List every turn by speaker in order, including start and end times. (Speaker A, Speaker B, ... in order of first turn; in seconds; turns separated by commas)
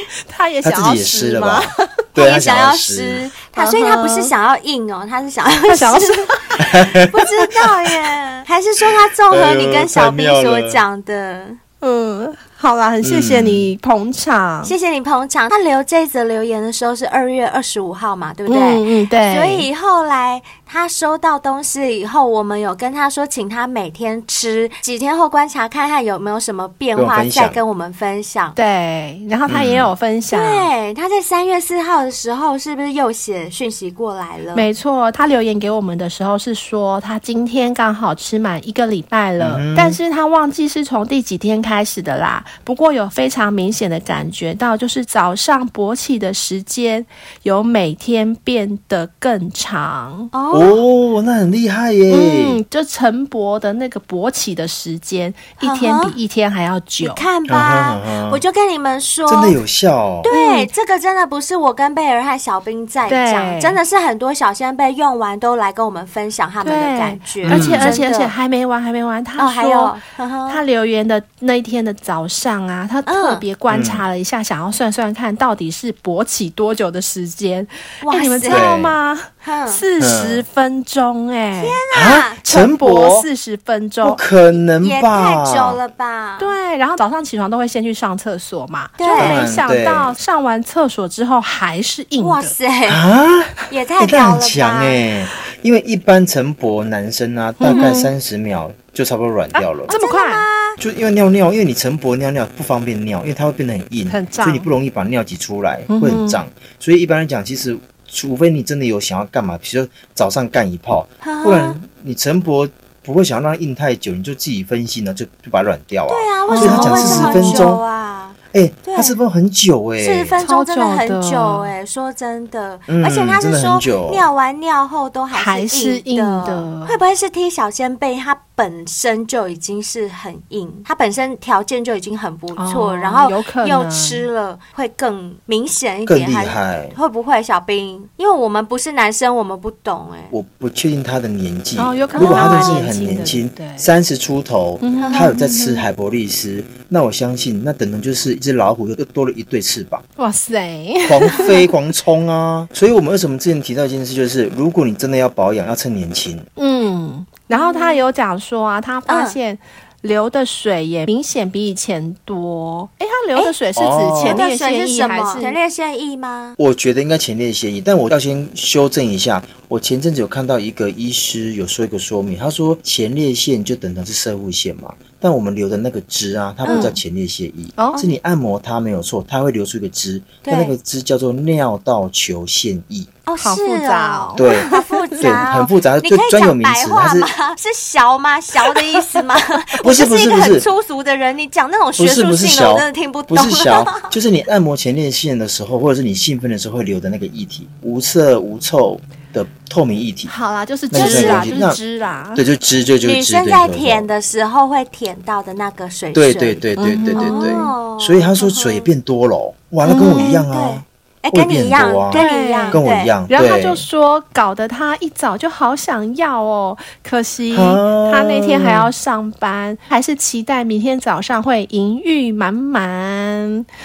Speaker A: 0.2-1.9, Speaker B: 0.6-3.3, Speaker C: 2.1-11.6, Speaker A: 3.5-4.3, Speaker A: 5.7-6.7, Speaker B: 6.7-7.1, Speaker B: 9.3-10.8, Speaker A: 11.8-14.7, Speaker B: 13.0-13.7, Speaker C: 14.6-28.6, Speaker A: 18.5-19.7, Speaker B: 26.9-27.6, Speaker A: 28.6-30.7, Speaker B: 29.5-29.9, Speaker C: 30.3-34.6, Speaker A: 34.5-50.3, Speaker B: 39.4-40.0, Speaker C: 50.3-50.8, Speaker B: 50.5-52.6, Speaker A: 52.1-57.2, Speaker C: 55.6-56.1, Speaker C: 57.0-59.6, Speaker B: 57.5-58.4, Speaker B: 59.3-60.3, Speaker C: 60.2-68.3, Speaker A: 60.3-60.7, Speaker A: 63.1-63.8, Speaker A: 66.6-81.8, Speaker B: 67.5-68.0, Speaker C: 69.4-70.6, Speaker C: 73.0-73.4, Speaker B: 73.7-74.0, Speaker C: 78.0-78.7, Speaker B: 78.5-79.0, Speaker C: 79.4-79.8, Speaker B: 80.0-80.4, Speaker C: 81.5-82.4, Speaker B: 81.9-83.3, Speaker A: 82.4-84.2, Speaker B: 84.0-85.8, Speaker C: 84.8-86.5, Speaker A: 86.4-92.5, Speaker C: 89.0-89.4, Speaker B: 89.1-90.1, Speaker C: 92.2-93.0, Speaker B: 92.9-99.9, Speaker C: 93.7-95.0, Speaker A: 97.6-98.1, Speaker C: 97.7-98.0, Speaker A: 99.8-100.5, Speaker C: 99.9-100.8, Speaker B: 100.8-117.8, Speaker A: 104.1-104.7, Speaker A: 105.9-106.4, Speaker C: 111.2-111.8, Speaker C: 116.1-119.2, Speaker A: 116.5-117.7, Speaker B: 118.5-120.4, Speaker C: 120.0-140.3, Speaker A: 120.4-121.7, Speaker B: 122.9-124.2, Speaker A: 125.3-126.9, Speaker A: 132.6-134.2, Speaker B: 136.1-136.9, Speaker B: 140.3-150.0, Speaker A: 141.8-143.9, Speaker C: 142.1-142.6, Speaker A: 144.8-145.8, Speaker C: 145.0-145.3, Speaker A: 150.2-151.7, Speaker B: 151.0-156.5, Speaker A: 156.6-165.6, Speaker C: 157.5-158.0, Speaker C: 159.1-159.4, Speaker B: 163.8-164.4, Speaker C: 164.2-166.6, Speaker B: 166.6-183.1, Speaker C: 176.6-176.9, Speaker A: 176.7-177.0, Speaker A: 177.8-178.0, Speaker C: 180.4-180.7, Speaker C: 183.2-194.1, Speaker A: 183.4-185.4, Speaker B: 184.3-187.3, Speaker B: 189.8-190.7, Speaker B: 192.0-200.3, Speaker A: 200.3-202.4, Speaker B: 200.9-201.8, Speaker C: 200.9-201.6, Speaker B: 202.3-204.1, Speaker C: 203.0-206.6, Speaker B: 206.1-213.8, Speaker A: 206.8-207.7, Speaker C: 207.2-208.9, Speaker C: 209.8-213.1, Speaker A: 210.0-210.4, Speaker A: 212.1-223.7, Speaker B: 217.5-218.9